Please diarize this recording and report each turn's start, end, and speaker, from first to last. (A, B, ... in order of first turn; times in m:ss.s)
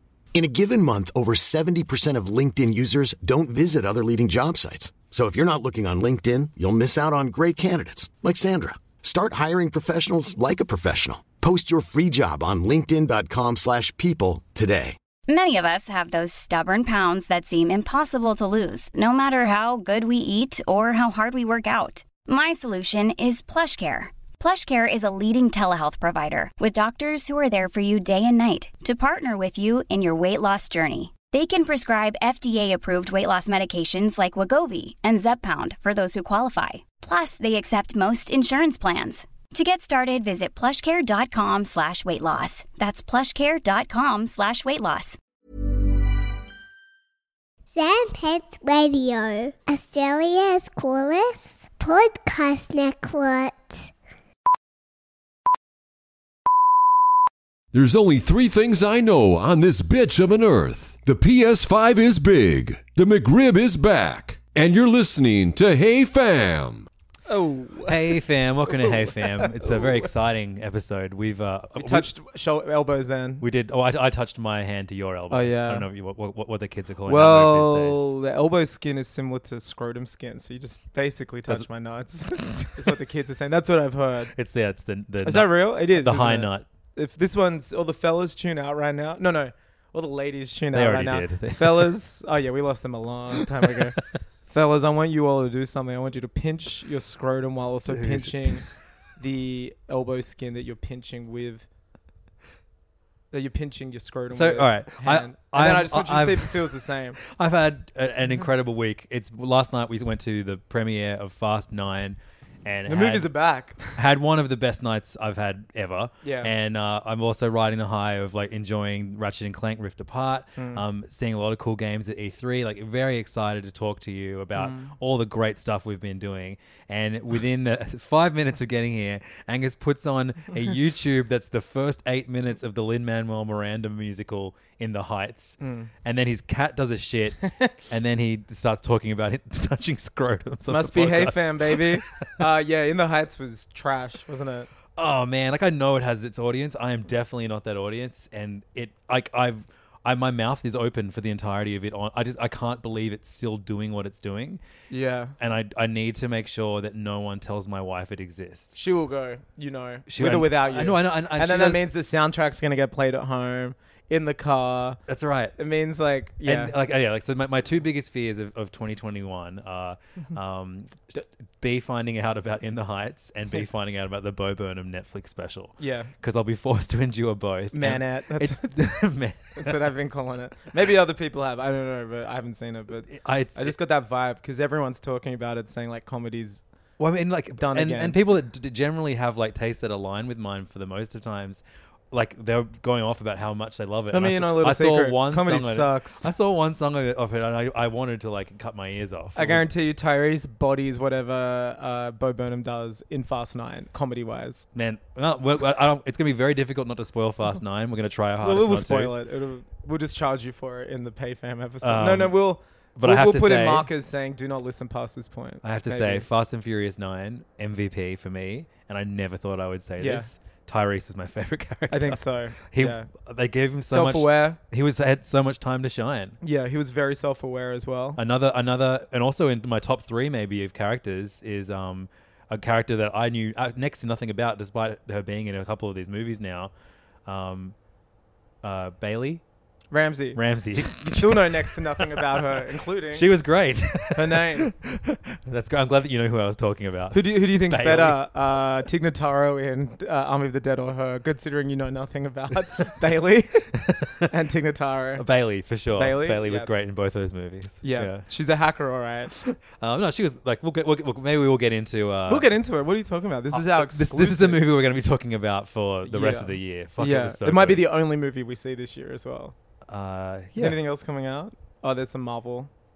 0:00.3-0:15.0 A
0:15.3-0:45.2 B
0:47.7-0:53.9 C
0:57.7-1:06.9 D
1:07.3-1:10.0 E
1:07.9-1:12.1 F
1:11.8-1:13.4 E
1:13.4-1:18.1 F
1:15.3-1:15.8 E
1:17.0-1:24.3 E
1:24.3-1:26.7 F
1:25.2-1:38.6 E
1:30.7-1:32.0 F
1:37.9-1:38.6 F
1:39.2-1:41.6 E
1:43.3-1:47.2 E
1:44.3-1:53.3 F
1:52.9-1:54.0 E
1:53.9-2:22.3 F
1:56.2-1:56.5 E
2:00.6-2:00.8 E
2:04.5-2:04.9 E
2:15.6-2:15.9 E
2:20.7-2:24.7 E
2:25.0-2:34.6 F
2:34.9-2:35.3 E
2:35.4-2:38.8 F
2:38.7-2:45.0 E
2:40.1-2:41.9 F
2:45.1-2:45.6 F
2:45.6-2:46.7 E
2:46.4-2:59.8 F
2:55.8-2:56.1 E
2:57.7-2:58.8 E
2:59.6-3:06.6 E
3:03.1-3:03.8 F
3:07.0-3:19.7 F
3:07.6-3:08.2 E
3:14.1-3:16.3 E
3:19.3-3:24.6 E
3:24.7-3:29.2 F
3:28.4-3:36.2 E
3:31.8-3:32.4 F
3:33.0-3:33.9 F
3:35.6-3:46.4 F
3:40.0-3:40.3 E
3:41.9-3:43.1 E
3:43.9-3:44.6 E
3:46.4-3:48.2 E
3:48.2-3:56.7 F
3:57.2-3:57.8 F
3:58.6-3:59.4 F
3:59.9-4:03.3 E
4:00.3-4:08.2 F
4:04.1-4:04.7 E
4:07.1-4:15.2 E
4:13.9-4:14.3 F
4:15.2-4:18.2 F
4:15.9-4:16.7 E
4:17.8-4:19.3 E
4:19.3-4:22.5 F
4:22.3-4:24.6 E
4:23.5-4:27.9 F
4:26.0-4:29.5 E
4:29.9-4:30.8 F
4:30.5-4:32.7 E